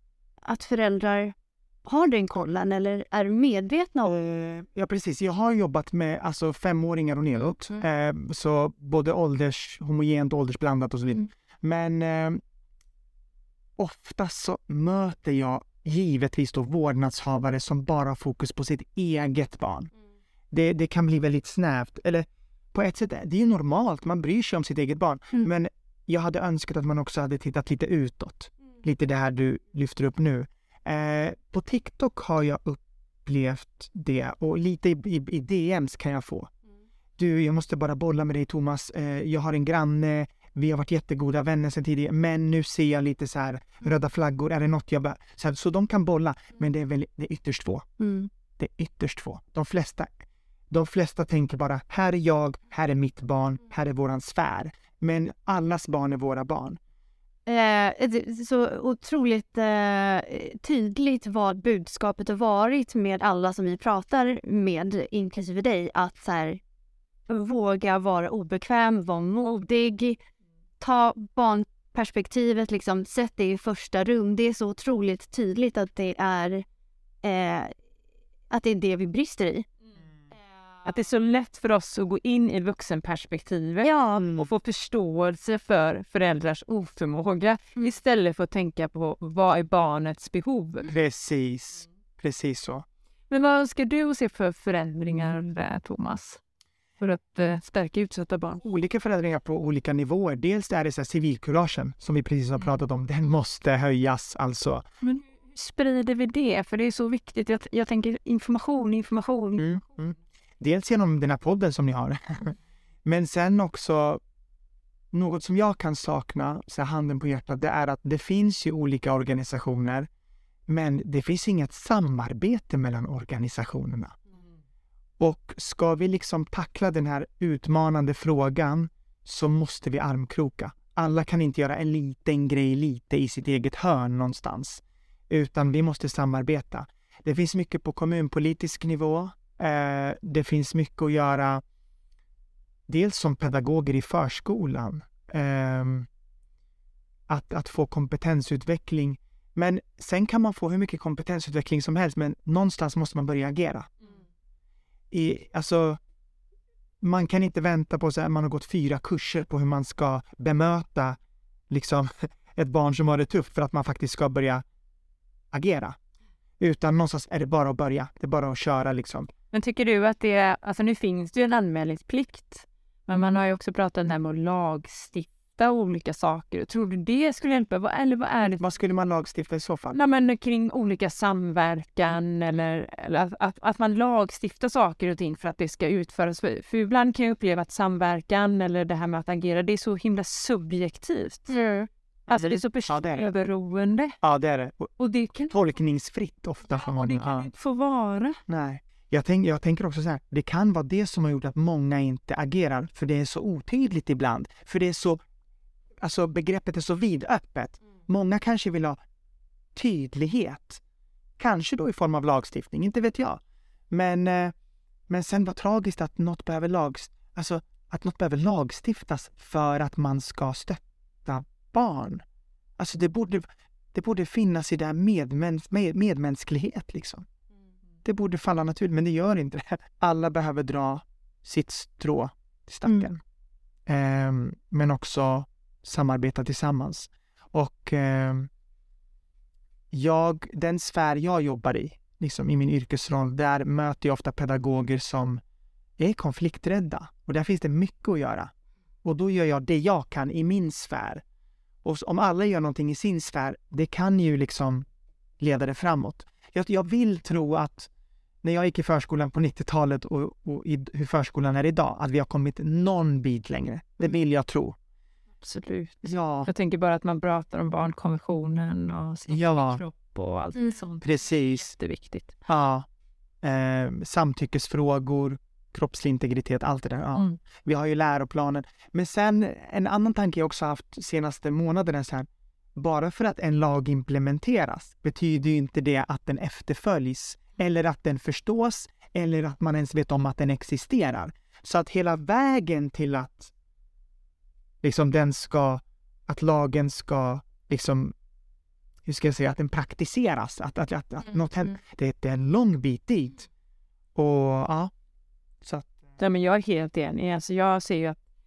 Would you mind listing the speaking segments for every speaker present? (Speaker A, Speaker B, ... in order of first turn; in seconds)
Speaker A: 0.4-1.4, 1.9-4.1, 48.0-48.3, 57.5-66.6, 67.3-70.2, 70.8-76.7, 77.2-77.7, 78.5-79.7, 83.8-84.3, 191.5-191.9
Speaker B: 4.1-12.4, 13.8-19.9, 20.5-36.5, 37.2-47.9, 48.6-56.8, 84.2-84.5, 90.8-92.8, 98.6-104.8, 109.6-114.2, 115.1-120.1, 120.7-124.2, 125.2-141.6, 142.9-146.1, 147.3-153.9, 155.1-156.0, 157.0-161.2, 161.7-164.6, 165.5-166.0, 166.6-169.3, 178.6-180.0, 192.3-193.3, 194.2-194.9, 195.5-197.5, 198.5-205.2, 206.0-209.0, 209.8-210.8, 211.4-214.5, 215.1-222.2, 222.8-227.3, 228.1-233.2, 233.9-238.5, 239.9-245.4, 246.0-248.5, 249.0-251.2, 251.8-254.9, 255.4-257.9, 258.4-264.8, 266.0-266.5, 269.3-269.8, 271.0-271.7, 272.5-272.9, 273.4-293.5, 294.8-298.1, 299.1-303.5, 304.1-304.9, 305.6-305.9
Speaker C: 80.8-90.9, 93.3-96.4, 97.0-98.6, 105.0-109.7, 169.5-178.6, 179.9-191.5, 192.3-194.2, 195.0-195.5, 196.7-198.4, 265.4-271.1, 271.6-272.4, 306.2-308.2